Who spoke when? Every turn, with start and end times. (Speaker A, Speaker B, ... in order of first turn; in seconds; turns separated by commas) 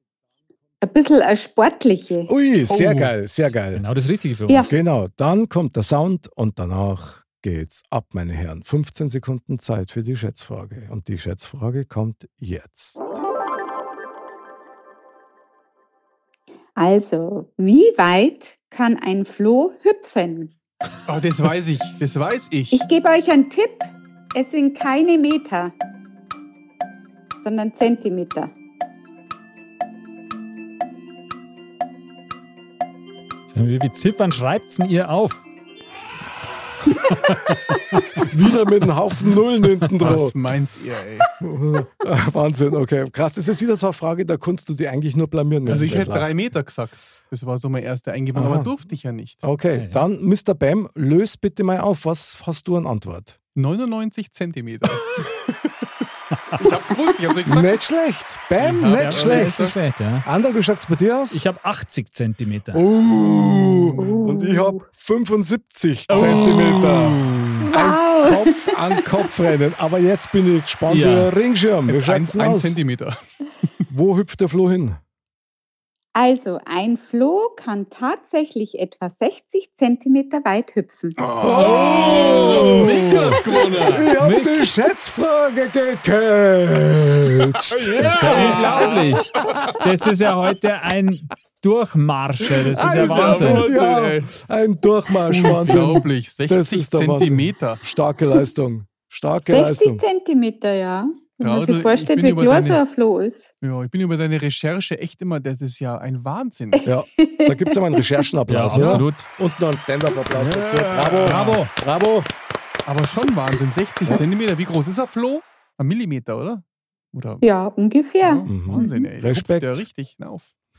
Speaker A: 0.8-2.3, Speaker B: 2.3-3.8, Speaker C: 2.7-3.1, Speaker D: 3.7-4.7, Speaker A: 4.5-4.8, Speaker B: 4.7-13.2, Speaker A: 16.8-20.5, Speaker C: 21.1-22.8, Speaker A: 22.7-25.7, Speaker A: 27.4-28.5, Speaker D: 33.5-35.4, Speaker D: 36.9-38.0, Speaker B: 38.1-40.4, Speaker C: 40.0-41.3, Speaker B: 41.4-46.4, Speaker C: 45.6-49.4, Speaker B: 48.3-48.7, Speaker B: 49.4-53.4, Speaker D: 49.7-50.0, Speaker C: 53.5-55.7, Speaker C: 56.6-57.8, Speaker B: 57.5-59.6, Speaker C: 58.6-59.8, Speaker D: 58.9-60.2, Speaker B: 60.2-61.4, Speaker D: 61.3-62.9, Speaker B: 62.7-72.8, Speaker C: 63.5-64.0, Speaker A: 63.9-64.8, Speaker D: 66.1-67.7, Speaker C: 66.1-67.1, Speaker A: 67.7-69.3, Speaker D: 70.9-71.3, Speaker C: 71.9-73.8, Speaker B: 73.9-75.0, Speaker A: 76.1-81.2, Speaker C: 81.2-84.1, Speaker B: 81.4-89.6, Speaker D: 81.6-82.7, Speaker A: 82.7-83.9, Speaker D: 84.2-84.7, Speaker C: 87.5-89.8, Speaker D: 88.1-93.7, Speaker B: 92.7-100.0, Speaker C: 92.7-94.3, Speaker C: 95.2-97.8, Speaker A: 99.4-103.5, Speaker C: 101.4-102.8, Speaker C: 103.6-106.8, Speaker A: 106.7-108.3, Speaker B: 106.8-112.3, Speaker D: 108.5-109.3, Speaker C: 108.7-109.1, Speaker C: 110.3-111.4, Speaker D: 111.2-111.7, Speaker C: 112.8-117.4, Speaker A: 117.4-119.1, Speaker C: 118.2-120.5, Speaker B: 118.5-119.8